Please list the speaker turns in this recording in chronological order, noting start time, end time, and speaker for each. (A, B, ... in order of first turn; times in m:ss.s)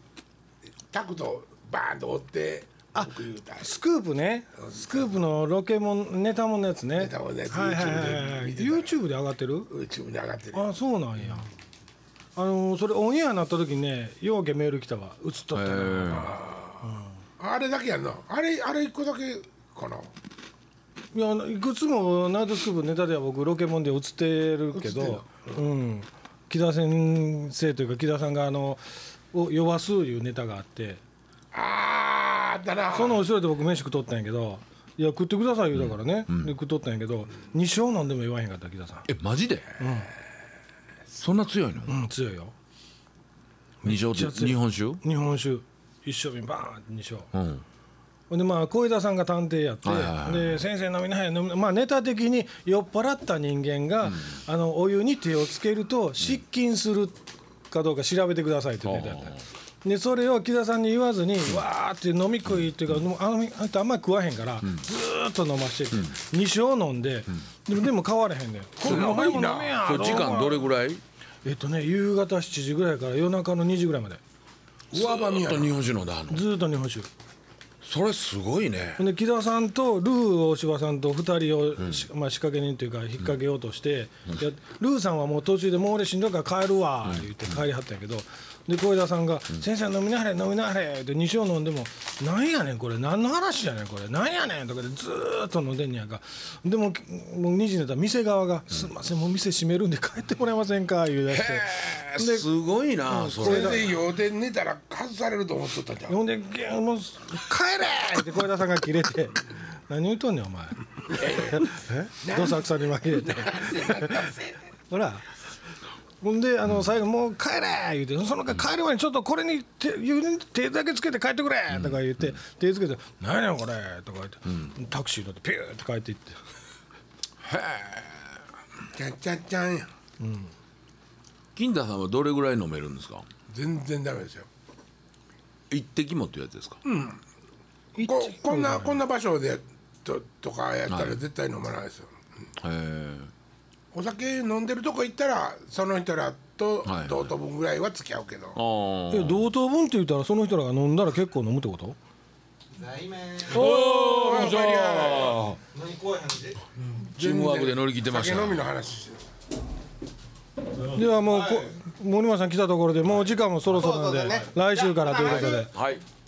0:00.9-0:03.8 A
0:02.9-0:09.7 B
0:07.0-0:09.0 A
0:09.7-0:10.7 A
0:10.5-0:11.5 B
0:12.4-0:16.3 B
0:15.5-0:16.3 C
0:16.1-0:20.1 A
0:16.8-0:17.1 B
0:21.1-0:31.0 B
0:24.7-0:25.6 A
0:31.5-0:33.2 A
0:32.9-0:39.1 B
0:35.7-0:36.5 C
0:39.1-0:39.7 C
0:39.8-0:40.1 B
0:41.2-0:41.9 C
0:41.9-0:42.5 B
0:43.8-0:47.3 B
0:43.8-0:45.0 C
0:47.3-0:47.6 C
0:48.3-0:57.2 B
0:49.8-0:50.6 C
0:54.0-0:54.4 C
0:57.7-1:10.7 B
0:58.8-0:59.4 C
1:08.8-1:11.0 C
1:08.9-1:09.3 A
1:11.4-1:14.2 B
1:14.9-1:15.8 A
1:14.9-1:16.4 C
1:16.3-1:17.1 B
1:17.8-1:19.0 C
1:19.0-1:42.5 B
1:21.8-1:22.0 C
1:27.0-1:27.6 C
1:41.3-1:44.0 C
1:43.0-1:43.8 B
1:43.4-1:46.2 A
1:46.1-1:54.3 B
1:51.1-1:54.5 A
1:54.9-1:55.3 B
1:56.2-2:06.4 B
2:01.7-2:02.4 C
2:07.4-2:08.4 C
2:08.9-2:09.9 A
2:10.2-2:10.5 B
2:11.6-2:13.3 C
2:13.5-2:14.5 A
2:15.7-2:16.8 C
2:16.8-2:17.2 A
2:18.0-2:19.0 B
2:18.0-2:22.1 A
2:20.9-2:21.2 C
2:22.6-2:23.3 C
2:23.9-2:28.6 A
2:26.8-2:27.3 C
2:28.6-2:29.4 C
2:29.1-2:32.0 B
2:32.7-2:33.8 D
2:33.4-2:35.6 C
2:33.6-2:35.4 A
2:33.7-2:34.6 B
2:35.7-2:36.8 D
2:37.0-2:39.2 A
2:37.2-2:38.6 C
2:40.9-2:41.8 D
2:40.9-2:45.7 B
2:43.6-2:45.7 D
2:45.2-2:46.0 C